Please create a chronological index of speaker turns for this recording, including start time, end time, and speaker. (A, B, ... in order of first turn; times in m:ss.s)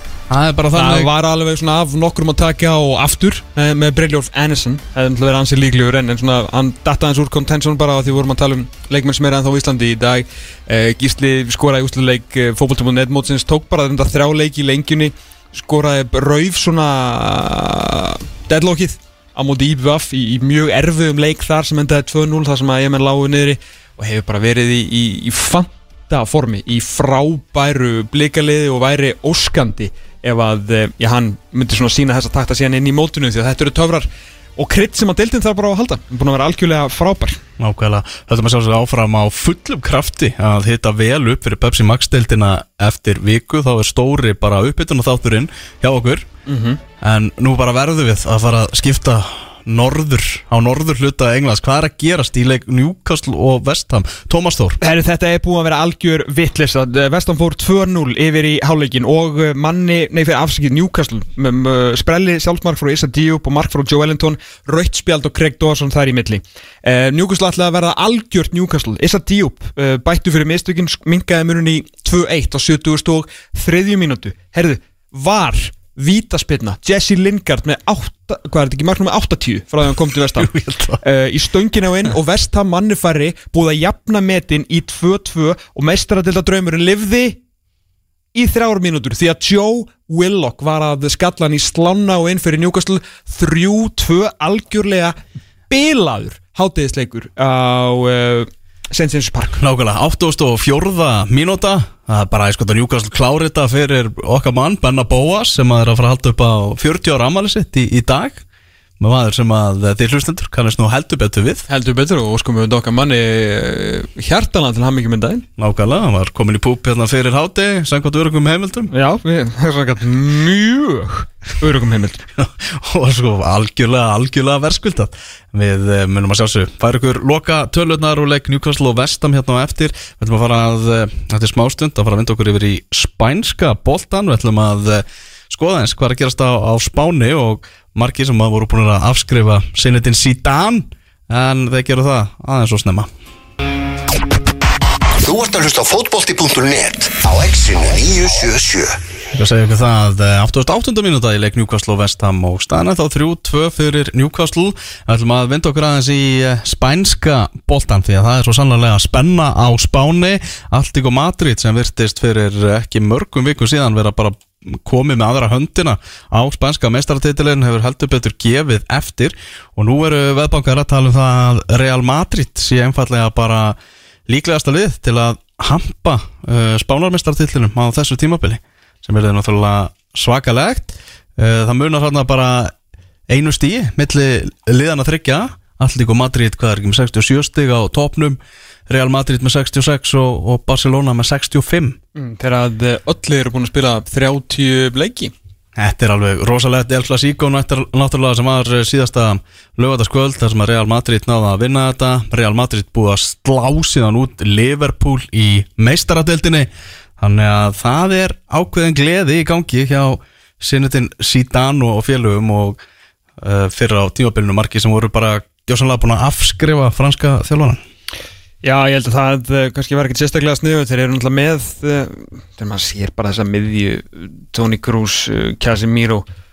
0:00.3-0:01.1 A
0:00.7-0:37.4 B
0:37.6-0:46.3 A
0:46.4-0:46.8 B
0:47.0-0:54.8 A
0:54.8-1:20.5 B
1:20.3-1:21.0 A
1:21.0-1:27.4 B
1:28.3-1:35.2 B
1:35.7-1:39.6 B
1:39.6-1:48.4 A
1:49.0-1:51.6 A
1:51.7-1:55.4 B
1:55.6-1:58.9 A
1:58.9-2:02.2 B
2:02.4-2:23.1 A
2:25.2-2:29.0 C
2:29.3-3:02.7 A
3:03.3-3:12.0 A
3:12.1-3:15.3 B
3:15.8-3:32.8 A
3:33.4-3:37.8 A
3:38.6-3:46.2 B